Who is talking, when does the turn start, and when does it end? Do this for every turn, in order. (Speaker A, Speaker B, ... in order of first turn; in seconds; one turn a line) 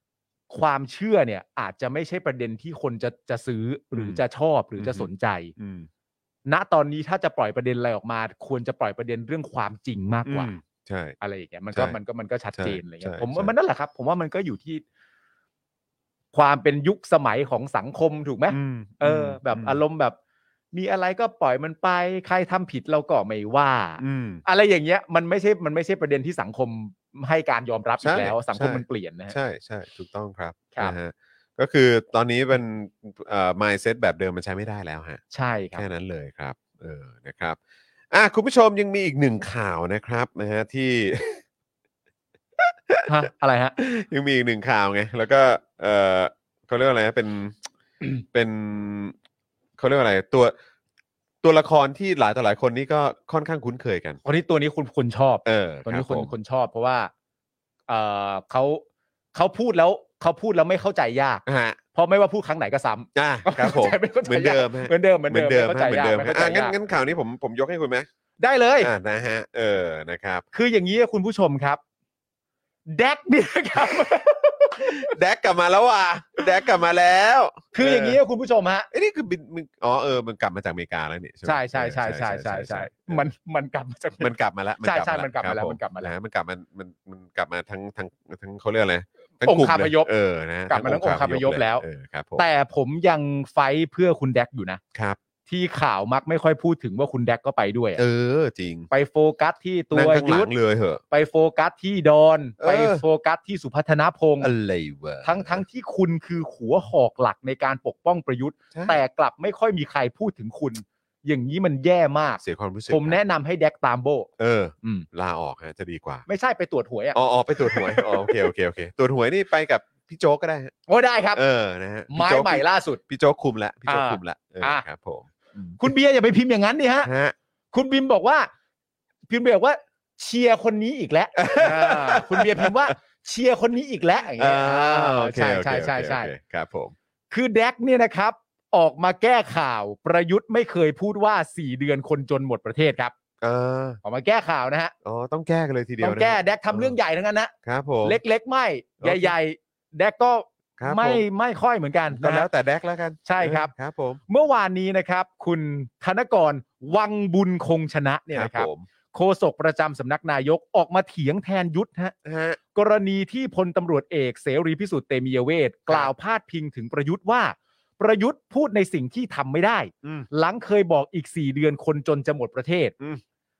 Speaker A: 0.5-5.5
Speaker B: 3.9-4.2
Speaker B: 4.8-5.9
Speaker A: 6.5-10.5
Speaker B: 10.3-11.2
Speaker A: 11.2-14.8
Speaker B: 12.5-13.5
Speaker A: 16.3-20.1
Speaker B: 18.5-19.8
Speaker A: 20.7-29.4
Speaker B: 24.0-24.4
Speaker B: 28.0-35.2
Speaker A: 35.3-35.9
Speaker B: 35.7-37.6
Speaker B: 38.1-41.4
Speaker B: 42.6-43.1
Speaker A: 43.0-43.8
Speaker B: 43.8-49.1
Speaker B: 49.8-50.5
Speaker B: 51.4-54.2
Speaker A: 54.2-57.1
Speaker B: 55.4-56.3
Speaker A: 57.9-58.8
Speaker A: 59.3-66.7
Speaker B: 61.5-61.8
Speaker B: 63.1-68.1
Speaker A: 68.4-68.9
Speaker B: 68.8-70.4
Speaker A: 70.5-71.8
Speaker A: 72.9-75.1
Speaker B: 74.8-78.2
Speaker A: 77.7-78.9
Speaker B: 78.9-83.3
Speaker A: 81.5-86.1
Speaker B: 84.2-92.5
Speaker A: 89.4-90.1
Speaker A: 90.7-91.8
Speaker A: 92.4-94.8
Speaker B: 94.9-95.2
Speaker A: 95.5-98.0
Speaker B: 98.0-98.9
Speaker A: 98.9-100.5
Speaker B: 99.9-101.0
Speaker A: 101.1-104.5
Speaker B: 102.6-103.0
Speaker B: 104.4-105.6
Speaker A: 105.2-114.3
Speaker B: 108.7-109.0
Speaker B: 112.4-113.2
Speaker B: 114.4-116.2
Speaker A: 116.3-118.5
Speaker B: 117.1-120.7
Speaker A: 120.9-121.4
Speaker B: 121.3-125.8
Speaker A: 122.1-123.0
Speaker A: 123.9-124.8
Speaker A: 125.8-127.1
Speaker B: 127.0-127.3
Speaker A: 127.7-128.5
Speaker A: 129.3-136.3
Speaker B: 131.3-132.9
Speaker B: 134.4-136.9
Speaker A: 137.3-143.1
Speaker B: 143.4-144.0
Speaker A: 144.0-144.9
Speaker B: 145.0-146.9
Speaker A: 146.0-147.5
Speaker B: 147.6-148.2
Speaker A: 148.0-152.5
Speaker B: 149.0-149.3
Speaker B: 150.8-151.2
Speaker B: 152.1-154.2
Speaker A: 153.2-153.7
Speaker A: 154.3-162.1
Speaker B: 158.3-158.9
Speaker B: 162.2-162.6
Speaker A: 162.7-172.9
Speaker B: 170.0-170.3